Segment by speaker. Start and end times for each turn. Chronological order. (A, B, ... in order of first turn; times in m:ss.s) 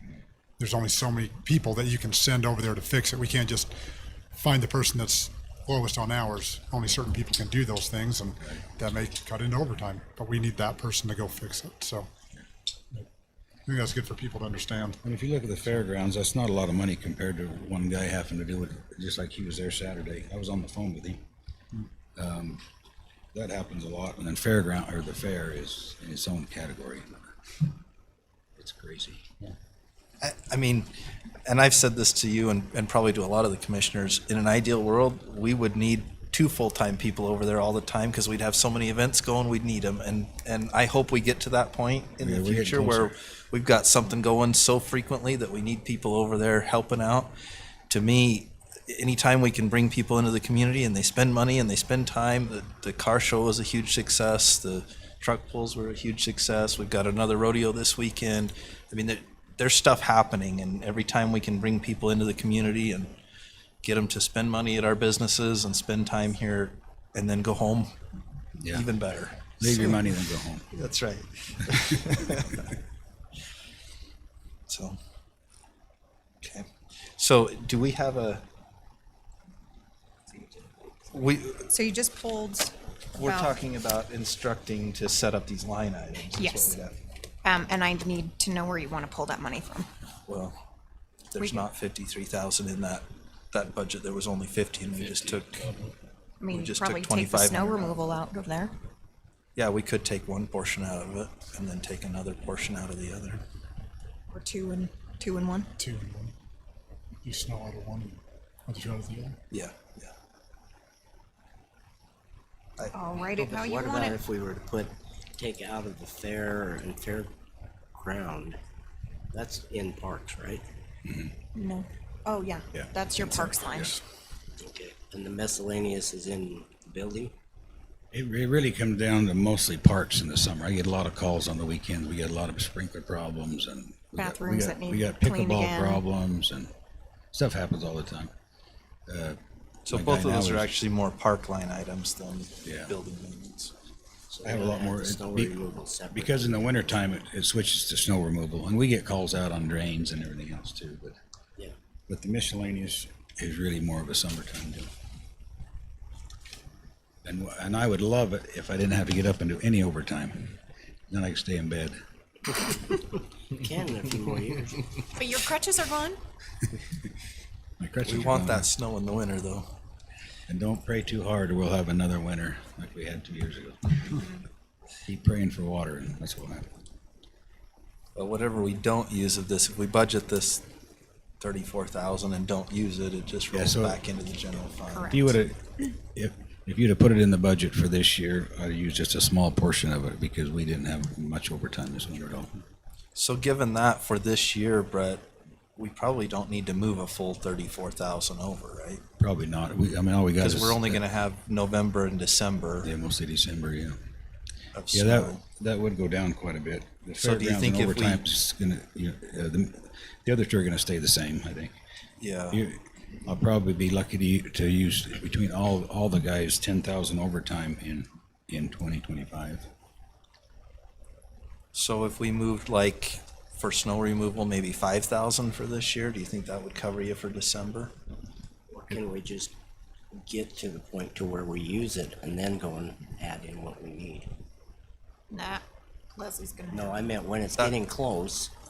0:00.6-0:12.1 A
0:13.6-0:15.0 A
0:15.0-0:21.2 B
0:22.2-0:22.6 B
0:23.3-0:27.2 B
0:28.6-0:29.4 B
0:30.2-0:30.9 C
0:31.4-0:47.3 C
0:42.2-0:43.1 B
0:47.9-1:03.1 C
1:03.8-1:07.9 C
1:08.6-1:08.9 B
1:08.7-1:09.9 C
1:09.6-1:10.7 B
1:10.7-1:12.7 C
1:14.7-1:15.0 C
1:16.4-1:18.4 C
1:21.1-1:21.7 C
1:21.7-1:23.5 D
1:23.1-1:27.0 C
1:26.3-1:26.8 D
1:27.4-1:29.9 D
1:30.3-1:30.6 C
1:31.3-1:35.7 C
1:31.4-1:31.7 D
1:36.4-1:38.7 D
1:36.5-1:38.0 C
1:39.6-1:43.4 C
1:44.3-1:45.7 D
1:45.8-1:46.3 A
1:47.2-1:49.4 A
1:49.5-1:50.1 C
1:52.9-1:54.2 D
1:53.3-1:57.3 E
1:57.9-1:58.6 E
1:59.3-2:00.6 E
2:01.0-2:01.3 B
2:01.5-2:04.0 D
2:02.7-2:04.0 B
2:04.6-2:07.3 E
2:08.1-2:16.7 B
2:14.2-2:16.0 D
2:17.3-2:18.3 B
2:19.1-2:20.7 B
2:19.9-2:23.7 C
2:22.6-2:22.9 B
2:24.3-2:27.0 E
2:24.4-2:25.5 B
2:26.1-2:31.2 B
2:32.1-2:34.9 B
2:37.2-2:42.0 B
2:43.5-2:44.9 E
2:45.1-2:46.2 D
2:47.8-2:48.6 B
2:48.0-2:49.6 C
2:50.5-2:54.2 B
2:54.1-2:54.4 D
2:55.0-2:56.7 B
2:58.2-3:00.6 C
3:01.4-3:05.4 C
3:03.5-3:04.0 B
3:04.9-3:05.2 D
3:05.0-3:12.5 B
3:13.1-3:19.0 C
3:19.2-3:21.0 B
3:20.4-3:22.9 C
3:22.8-3:24.0 B
3:24.7-3:25.4 C
3:24.9-3:31.7 B
3:27.2-3:28.2 C
3:32.2-3:32.6 C
3:32.5-3:39.7 B
3:41.7-3:47.9 C
3:48.7-3:49.5 E
3:50.1-3:54.3 E
3:55.3-3:55.6 D
3:56.1-3:57.1 D
3:56.7-3:58.5 E